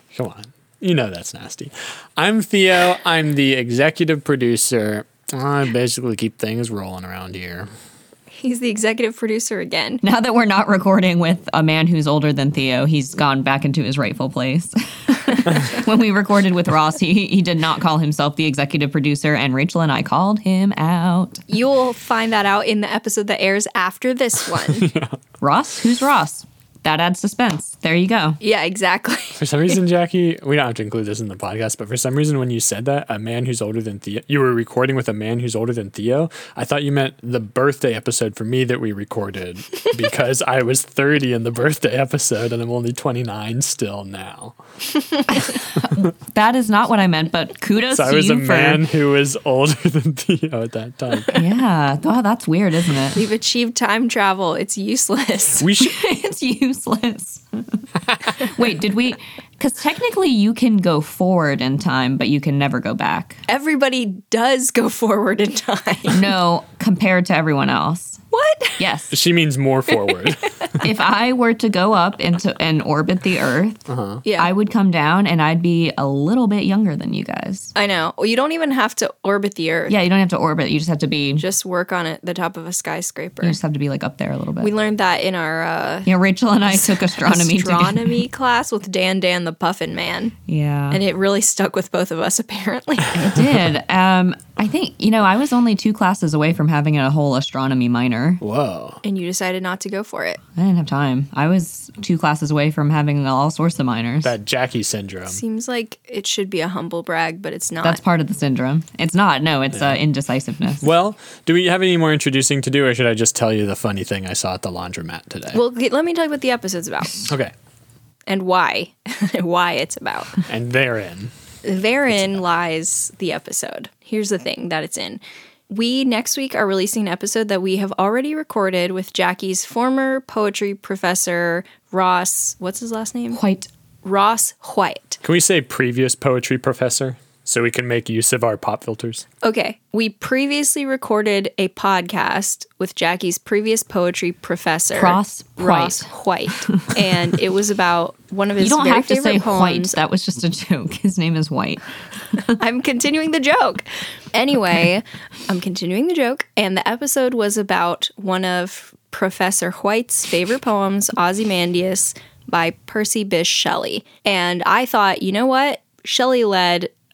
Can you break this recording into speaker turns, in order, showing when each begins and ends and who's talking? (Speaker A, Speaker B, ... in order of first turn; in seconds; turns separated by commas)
Speaker A: 0.1-7.7, Speaker B: 8.3-10.0, Speaker C: 10.0-21.4, Speaker B: 21.5-24.9, Speaker A: 24.7-25.1, Speaker C: 25.4-28.4, Speaker B: 28.4-29.8, Speaker A: 29.4-44.6, Speaker C: 45.3-48.8, Speaker A: 47.9-51.4, Speaker C: 51.3-53.2, Speaker B: 53.1-55.7, Speaker A: 55.6-55.9, Speaker C: 55.8-63.4, Speaker B: 63.5-66.2, Speaker C: 66.1-68.2, Speaker B: 68.3-68.8, Speaker C: 68.8-69.1, Speaker A: 69.1-70.8, Speaker C: 70.8-73.8, Speaker A: 73.9-74.2, Speaker B: 74.2-74.5, Speaker C: 74.4-77.7, Speaker B: 77.8-79.9, Speaker C: 79.9-81.4, Speaker B: 81.4-83.6, Speaker C: 83.4-84.7, Speaker B: 84.6-86.1, Speaker C: 86.0-88.2, Speaker B: 86.7-90.3, Speaker C: 90.5-91.0, Speaker B: 90.9-93.3, Speaker C: 93.1-98.4, Speaker A: 98.4-99.0, Speaker B: 99.0-100.4, Speaker C: 100.5-104.3, Speaker A: 104.2-105.4, Speaker B: 105.3-108.0, Speaker C: 107.8-110.8, Speaker A: 109.7-110.0, Speaker A: 110.8-115.6, Speaker B: 115.5-117.3, Speaker A: 117.2-117.5, Speaker B: 118.3-120.4, Speaker A: 120.5-121.3, Speaker B: 121.6-133.4, Speaker C: 133.3-133.7, Speaker B: 134.0-135.2, Speaker A: 135.2-139.2, Speaker B: 139.4-150.0, Speaker C: 144.9-146.1, Speaker C: 146.7-146.9, Speaker C: 148.6-152.6, Speaker B: 152.5-166.9